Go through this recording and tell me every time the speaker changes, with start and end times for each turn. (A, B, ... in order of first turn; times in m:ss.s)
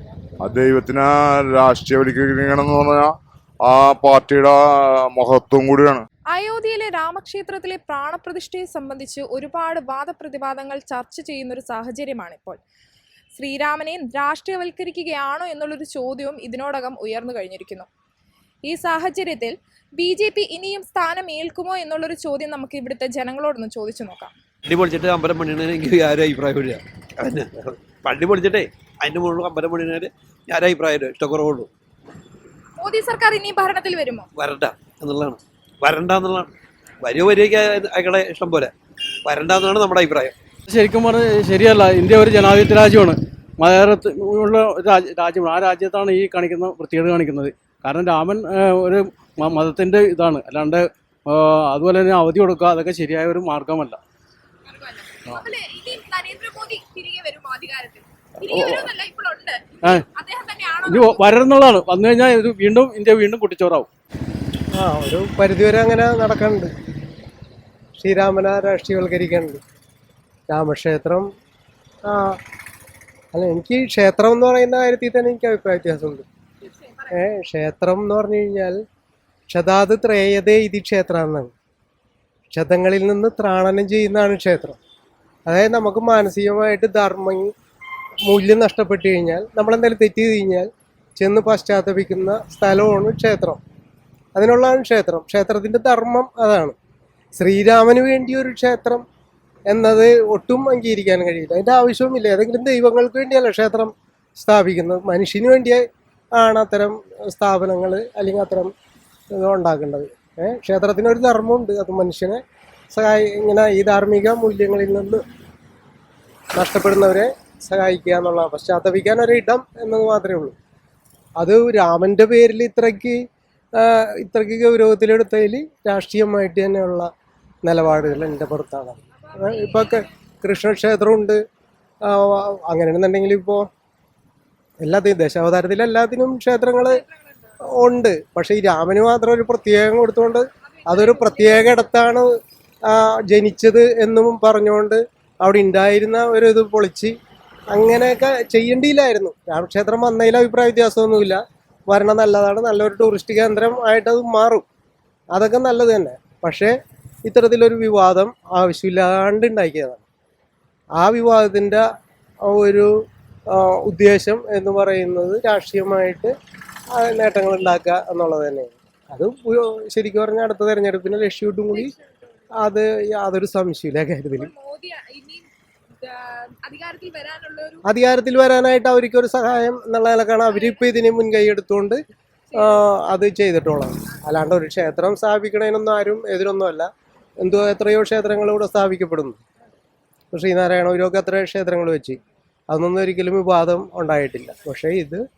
0:00.4-0:04.6 A
0:05.1-0:06.1 A
0:06.3-0:12.6 B
0:13.4-0:17.9 B
0:18.6-0:24.3 B
0:24.7-0:31.7 C
0:32.8-0:34.3 B
0:34.4-0:36.5 C
0:37.0-0:38.7 C
0:39.2-0:40.3 C
0:40.7-0:54.0 D
0:54.7-1:01.4 B
0:58.4-0:58.9 D
1:00.8-1:03.9 D
1:04.7-1:06.7 E
1:08.0-1:09.6 E
1:10.5-1:11.3 E
1:12.1-1:12.4 E
1:13.3-1:16.2 E
1:17.1-1:18.8 E
1:19.5-1:21.5 E
1:22.5-1:24.8 E
1:25.5-1:27.5 E
1:28.2-1:33.6 E
1:34.3-1:36.8 E
1:37.4-1:39.0 E
1:39.7-1:45.8 E
1:46.3-1:48.7 E
1:49.3-1:52.4 E
1:52.9-1:55.2 E
1:56.6-2:00.6 E
2:01.4-2:03.2 E
2:03.8-2:07.1 E
2:07.6-2:11.4 E
2:12.0-2:13.7 E
2:14.8-2:17.0 E
2:17.8-2:22.3 E
2:20.9-2:21.7 B
2:22.9-2:27.2 E
2:27.7-2:34.7 E
2:35.3-2:40.0 E
2:41.0-2:41.8 E
2:42.4-2:42.9 E
2:43.5-2:46.4 E
2:46.9-2:51.9 E
2:52.6-2:54.5 E
2:54.4-2:55.5 B
2:56.0-2:57.8 B
2:57.8-3:02.0 E
3:00.5-3:00.8 B
3:02.5-3:02.8 B
3:02.5-3:06.9 E
3:07.4-3:09.4 E
3:10.3-3:15.2 E